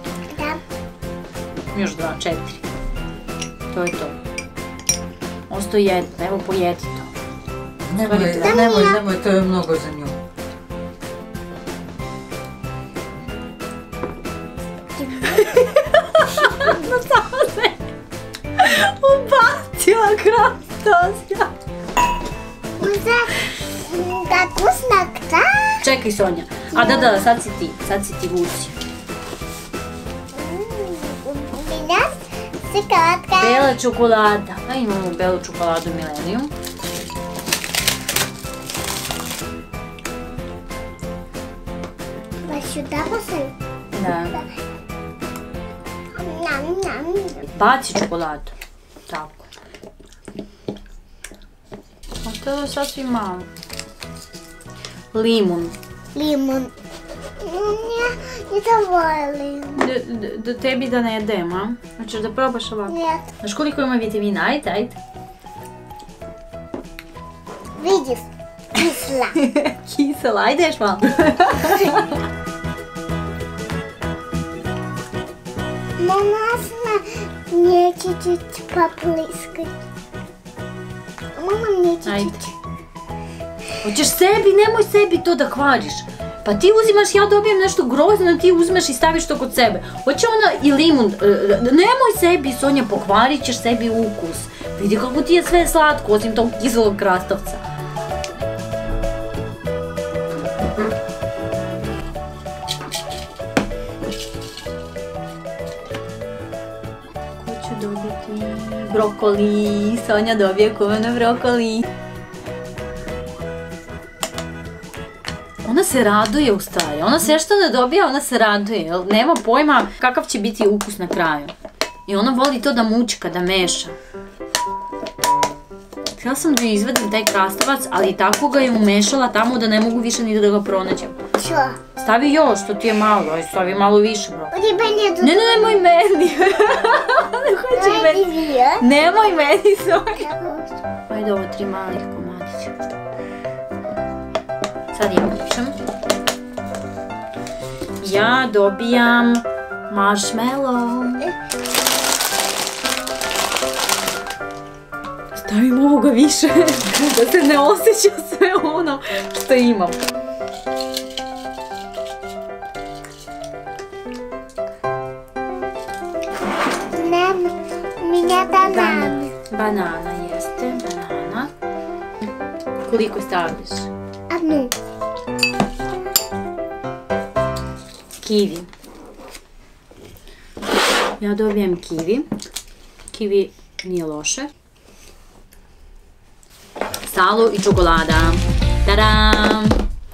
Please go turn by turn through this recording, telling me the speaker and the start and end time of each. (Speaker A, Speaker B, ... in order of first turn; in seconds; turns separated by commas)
Speaker A: 0.3-0.6, Speaker B: 1.7-2.6, Speaker B: 3.7-4.2, Speaker B: 5.5-7.1, Speaker C: 7.9-10.2, Speaker B: 8.0-8.6, Speaker A: 8.4-9.0, Speaker A: 15.0-15.5, Speaker B: 15.3-17.8, Speaker A: 16.4-16.8, Speaker B: 18.6-21.5, Speaker A: 22.8-25.8, Speaker B: 25.8-28.7, Speaker A: 26.7-27.3, Speaker A: 30.3-33.8, Speaker B: 33.4-36.5, Speaker A: 42.4-43.5, Speaker B: 43.9-44.4, Speaker A: 46.2-47.5, Speaker B: 47.5-48.5, Speaker B: 49.1-49.5, Speaker B: 52.2-53.5, Speaker B: 55.1-55.8, Speaker A: 56.1-56.7, Speaker A: 57.4-59.9, Speaker B: 59.8-65.0, Speaker A: 62.9-63.2, Speaker A: 67.8-69.4, Speaker B: 69.4-72.1, Speaker A: 76.0-79.8, Speaker A: 81.3-82.5, Speaker B: 82.1-82.4, Speaker B: 83.8-97.6, Speaker B: 107.4-111.9, Speaker B: 115.6-121.5, Speaker B: 122.1-124.0, Speaker B: 126.2-131.2, Speaker A: 131.4-131.8, Speaker B: 132.0-134.5, Speaker A: 134.5-135.8, Speaker B: 135.2-138.3, Speaker A: 137.8-139.5, Speaker B: 138.8-140.3, Speaker A: 140.2-140.8, Speaker B: 141.1-142.7, Speaker B: 144.9-145.8, Speaker B: 148.0-151.3, Speaker B: 155.3-160.0, Speaker A: 166.9-169.3, Speaker B: 168.6-171.5, Speaker B: 172.8-173.9, Speaker A: 174.3-174.7, Speaker B: 178.2-178.7, Speaker B: 181.2-182.3, Speaker B: 183.1-184.5, Speaker B: 187.1-189.8